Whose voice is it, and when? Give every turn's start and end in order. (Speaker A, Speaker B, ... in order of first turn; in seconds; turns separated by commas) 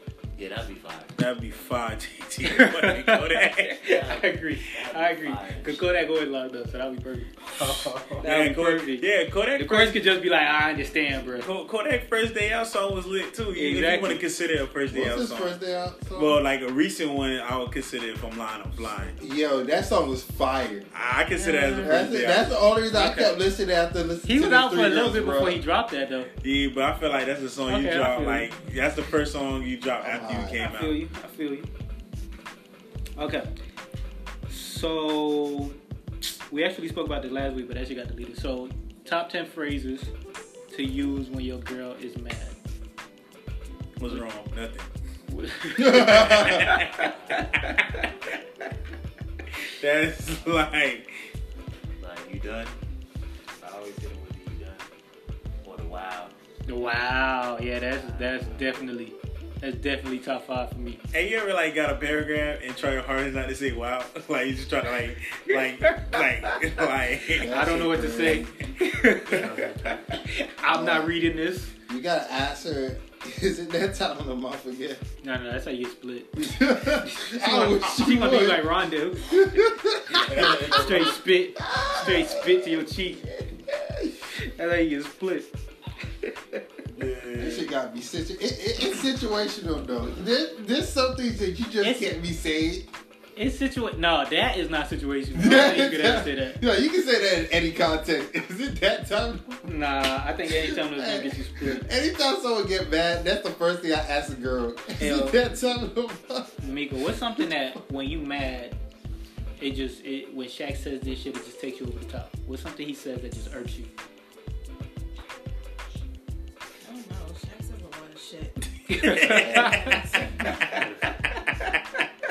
Speaker A: 0.3-1.1, Speaker B: 1.1-3.8, Speaker C: 2.4-11.5, Speaker A: 3.9-5.9, Speaker A: 7.6-8.2, Speaker B: 7.6-10.0, Speaker B: 11.4-15.6, Speaker C: 13.5-14.2, Speaker D: 14.9-16.4, Speaker B: 16.1-19.2, Speaker D: 19.2-20.9, Speaker B: 20.9-22.6, Speaker C: 21.3-22.1, Speaker D: 21.8-25.6, Speaker C: 22.9-23.4, Speaker C: 24.2-26.3, Speaker B: 26.4-31.0, Speaker C: 27.7-28.5, Speaker D: 30.0-30.6, Speaker C: 30.6-31.7, Speaker C: 33.2-33.5, Speaker C: 34.5-35.7, Speaker C: 36.5-40.1, Speaker C: 40.7-42.6, Speaker B: 44.0-44.9, Speaker C: 45.3-48.1, Speaker D: 45.8-46.7, Speaker B: 45.9-47.1, Speaker A: 46.9-47.6, Speaker B: 49.8-51.1, Speaker A: 52.0-52.7, Speaker A: 53.6-54.9, Speaker A: 55.6-56.3, Speaker C: 56.7-61.0, Speaker A: 57.9-58.9, Speaker B: 61.1-67.5, Speaker C: 65.8-66.7, Speaker D: 67.4-68.5, Speaker C: 67.4-71.7, Speaker A: 69.3-69.9, Speaker D: 70.7-71.1, Speaker D: 71.9-75.0, Speaker C: 75.2-79.5, Speaker D: 76.3-78.7, Speaker D: 79.3-80.8, Speaker B: 80.1-81.2, Speaker C: 80.2-83.3, Speaker D: 81.6-82.6, Speaker C: 84.5-85.5, Speaker B: 86.9-87.7, Speaker D: 87.4-92.9, Speaker C: 91.8-92.1, Speaker C: 93.3-96.6, Speaker D: 95.3-99.7, Speaker C: 99.7-101.8, Speaker D: 100.5-106.6, Speaker B: 105.0-105.4, Speaker C: 106.6-108.8, Speaker C: 109.6-113.9, Speaker E: 116.8-120.8, Speaker C: 118.9-120.0, Speaker B: 119.0-120.0, Speaker D: 119.4-119.8, Speaker A: 120.6-121.1, Speaker B: 121.3-122.0